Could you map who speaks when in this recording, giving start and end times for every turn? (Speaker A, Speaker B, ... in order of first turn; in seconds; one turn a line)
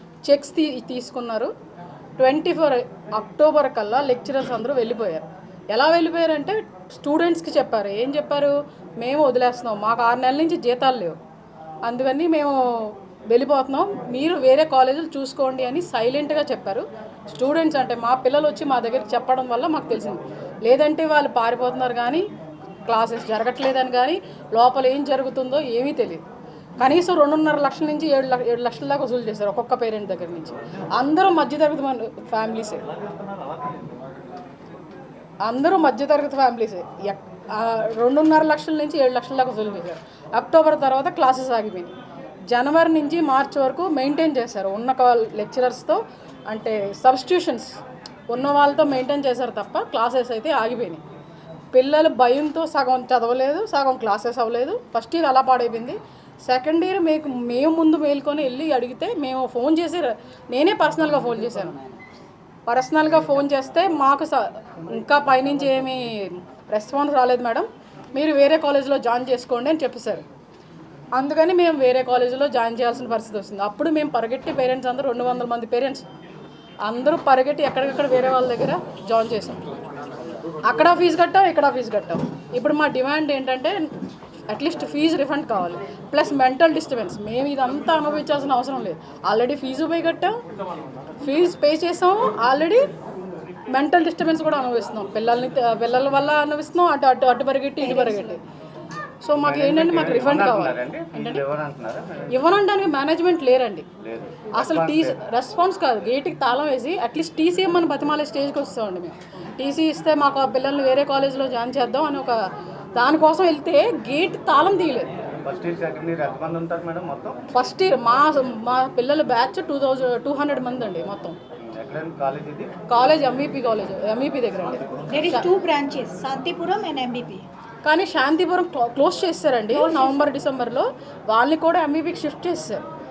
Speaker A: 0.2-1.5
Speaker A: 2.2-11.2
Speaker A: 11.8-22.2
Speaker A: 22.9-26.3
Speaker A: 26.8-32.9
Speaker A: 35.4-41.9
Speaker A: 42.5-47.8
Speaker A: 48.3-51.0
Speaker A: 51.7-62.0
Speaker A: 62.7-70.2
Speaker A: 71.1-76.0
Speaker A: 76.8-79.7
Speaker A: 80.6-83.9
Speaker A: 84.5-90.4
Speaker A: 91.2-92.9
Speaker A: 93.7-98.4
Speaker B: 97.8-98.4
Speaker A: 99.2-101.4
Speaker C: 99.4-102.4
Speaker A: 102.3-103.9
Speaker C: 104.0-105.2
Speaker A: 104.5-112.4
Speaker A: 113.0-115.1
Speaker C: 115.4-117.4
Speaker A: 117.5-121.4
Speaker C: 121.6-122.7
Speaker A: 122.9-125.5
Speaker B: 125.1-127.4
Speaker A: 127.8-132.8
Speaker B: 129.7-130.2